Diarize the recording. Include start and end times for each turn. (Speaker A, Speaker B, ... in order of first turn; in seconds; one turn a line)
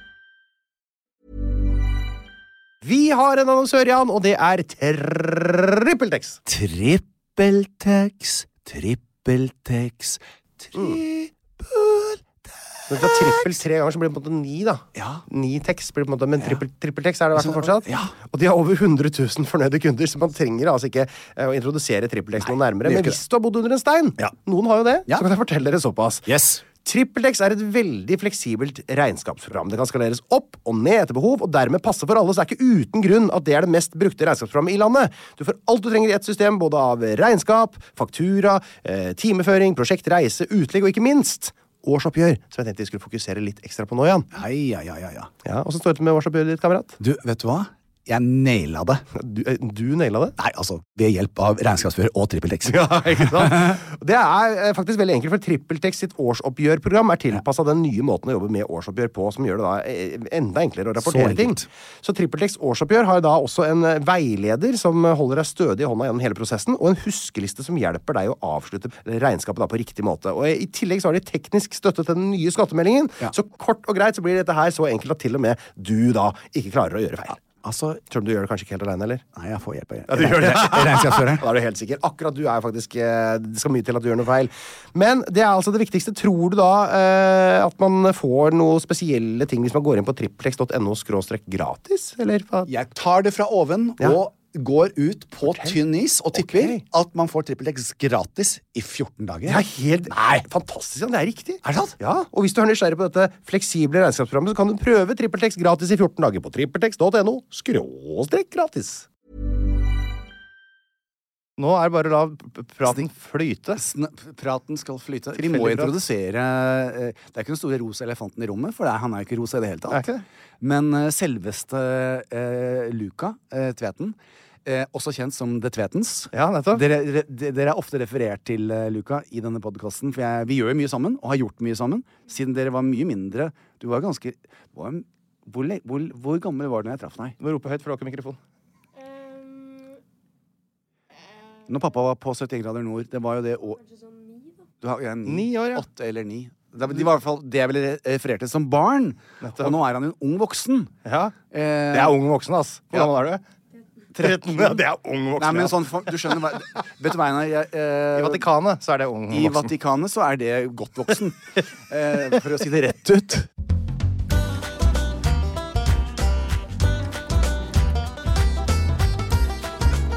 Speaker A: 2.8-6.4
Speaker B: 6.5-12.4
Speaker A: 10.7-11.0
Speaker A: 12.9-44.3
Speaker B: 13.0-13.6
Speaker B: 14.9-15.2
Speaker B: 17.3-18.1
Speaker B: 22.4-23.2
Speaker B: 26.3-26.6
Speaker B: 44.3-45.3
Speaker A: 45.4-47.0
Speaker B: 47.0-49.0
Speaker A: 49.1-50.4
Speaker B: 50.4-53.8
Speaker A: 53.1-77.4
Speaker B: 61.0-61.6
Speaker B: 77.6-78.0
Speaker A: 78.1-79.2
Speaker B: 79.3-81.5
Speaker A: 80.1-92.7
Speaker B: 92.7-100.5
Speaker A: 95.5-95.8
Speaker A: 96.3-96.8
Speaker A: 99.5-109.1
Speaker B: 101.6-101.9
Speaker A: 111.6-113.8
Speaker B: 113.7-120.0
Speaker A: 115.3-116.0
Speaker A: 119.9-120.2
Speaker B: 120.6-137.3
Speaker A: 126.3-126.8
Speaker A: 137.4-138.4
Speaker B: 141.7-143.8
Speaker B: 144.8-150.9
Speaker A: 145.2-145.8
Speaker A: 149.4-149.8
Speaker A: 151.0-151.3
Speaker B: 151.5-152.2
Speaker A: 151.9-153.4
Speaker A: 154.1-156.3
Speaker B: 154.5-154.8
Speaker B: 155.4-158.5
Speaker A: 158.1-159.7
Speaker B: 159.3-163.5